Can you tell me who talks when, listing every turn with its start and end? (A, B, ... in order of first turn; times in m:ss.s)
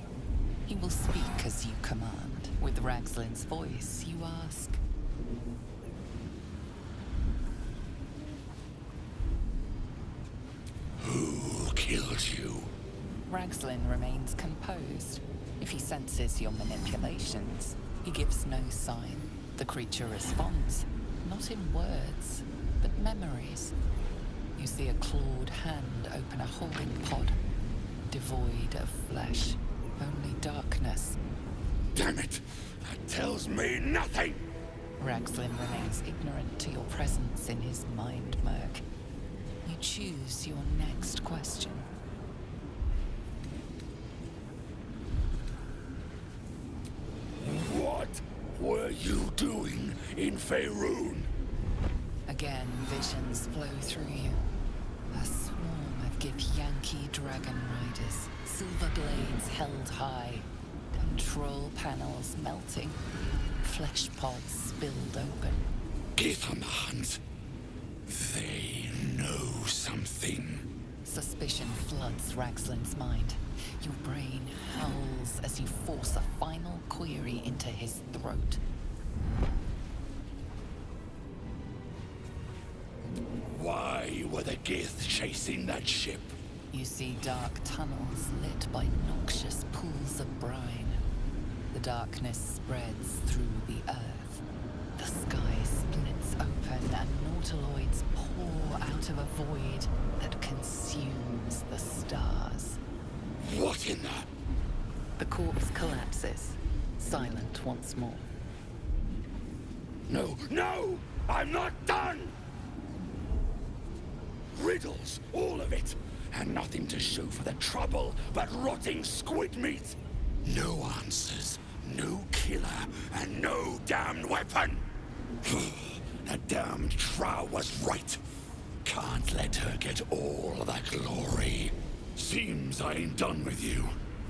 0:00.6-0:04.8 A
0:11.0-0:12.7 B
0:13.3-0:23.7 A
0:24.6-0:27.4 A
0:28.1-0:31.2 A
0:31.9-0:34.4 B
0:35.0-0:38.8 A
0:39.6-0:41.9 A
0:47.4-0:51.3 B
0:52.3-0:54.4 A
0:55.1-1:03.0 A
1:03.6-1:05.7 A
1:06.2-1:07.2 B
1:08.1-1:10.6 B
1:11.0-1:18.6 A
1:23.5-1:26.4 B
1:26.7-1:31.0 A
1:31.7-1:34.4 A
1:35.0-1:42.8 A
1:43.4-1:44.3 B
1:45.2-1:48.3 A
1:50.1-1:52.4 B
1:54.5-2:04.9 B
2:05.4-2:08.2 B
2:08.8-2:14.0 B